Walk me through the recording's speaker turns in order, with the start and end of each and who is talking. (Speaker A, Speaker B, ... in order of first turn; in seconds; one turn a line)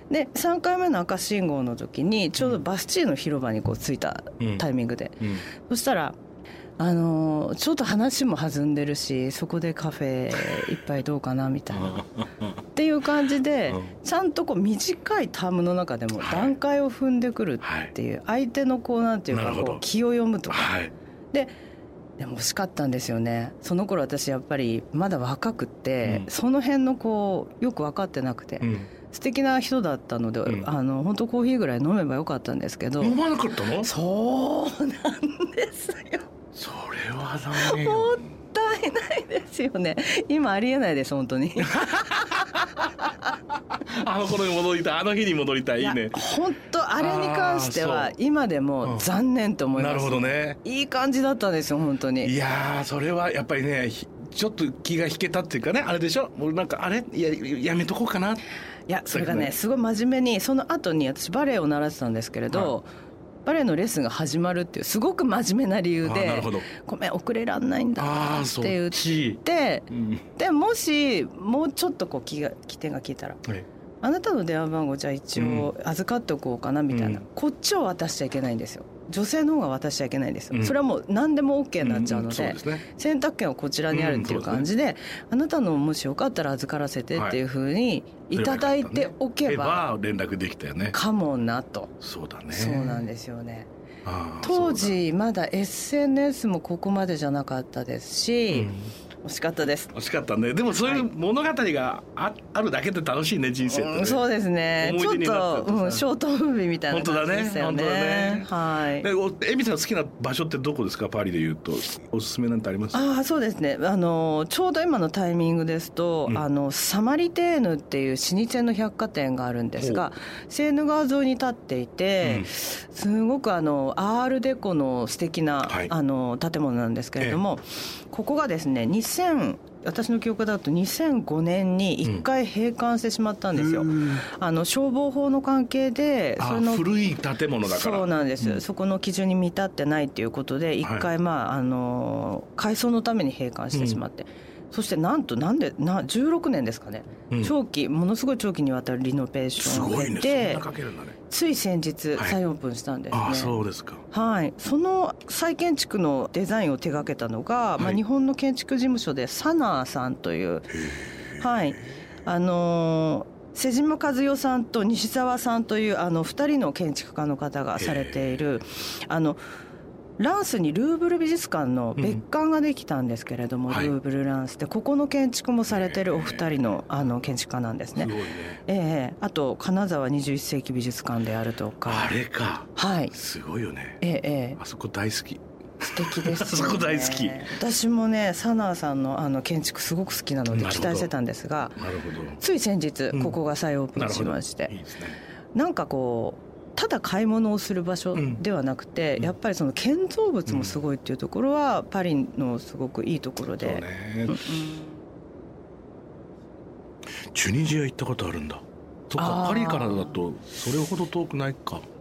Speaker A: 0.1-6.2
Speaker B: 4.4-4.7
Speaker A: 6.8-12.0
Speaker B: 10.4-10.7
Speaker B: 11.7-12.6
Speaker A: 12.8-20.7
Speaker B: 16.2-16.5
Speaker B: 17.6-17.9
Speaker B: 19.3-19.8
Speaker B: 20.5-20.9
Speaker A: 22.2-33.2
Speaker B: 28.6-28.9
Speaker B: 33.0-33.9
Speaker A: 33.8-36.3
Speaker B: 36.5-38.3
Speaker A: 37.6-42.6
Speaker B: 41.7-46.2
Speaker A: 45.8-52.3
Speaker B: 47.0-48.1
Speaker B: 49.8-50.6
Speaker B: 52.2-58.4
Speaker A: 58.9-62.9
Speaker B: 59.1-59.5
Speaker A: 63.5-73.4
Speaker B: 66.0-66.7
Speaker B: 68.0-70.2
Speaker A: 74.0-89.8
Speaker B: 75.4-75.7
Speaker B: 76.9-77.2
Speaker B: 80.5-80.8
Speaker B: 81.8-82.8
Speaker B: 83.9-84.7
Speaker B: 88.3-91.0
Speaker A: 90.9-91.9
Speaker B: 92.0-93.0
Speaker A: 92.5-93.7
Speaker B: 94.0-95.0
Speaker A: 94.4-98.7
Speaker B: 98.5-98.9
Speaker A: 99.2-99.9
Speaker B: 99.9-104.2
Speaker A: 100.8-101.1
Speaker A: 103.7-109.1
Speaker B: 104.8-106.0
Speaker B: 106.9-113.0
Speaker A: 112.9-136.8
Speaker B: 119.8-120.0
Speaker B: 122.2-122.5
Speaker B: 125.7-125.9
Speaker B: 133.5-134.2
Speaker B: 136.4-138.6
Speaker A: 137.6-150.6
Speaker B: 140.8-141.1
Speaker B: 143.7-144.0
Speaker B: 149.6-151.2
Speaker A: 151.3-153.6
Speaker B: 153.1-154.0
Speaker A: 154.1-160.8
Speaker B: 160.7-161.8
Speaker A: 161.4-169.4
Speaker B: 167.8-168.5
Speaker A: 170.2-178.1
Speaker B: 173.7-173.9
Speaker B: 175.7-176.5
Speaker B: 178.0-178.6
Speaker A: 178.7-182.1
Speaker B: 181.9-184.0
Speaker A: 182.8-183.1
Speaker A: 184.0-184.6
Speaker B: 184.6-187.5
Speaker A: 185.9-191.8
Speaker B: 190.5-191.1
Speaker B: 191.8-192.4
Speaker A: 192.4-194.8
Speaker B: 193.1-193.4
Speaker B: 193.9-195.2
Speaker A: 195.5-205.0
Speaker B: 198.2-198.4
Speaker B: 200.5-200.8
Speaker B: 203.6-204.5
Speaker B: 207.3-211.8
Speaker A: 209.2-210.2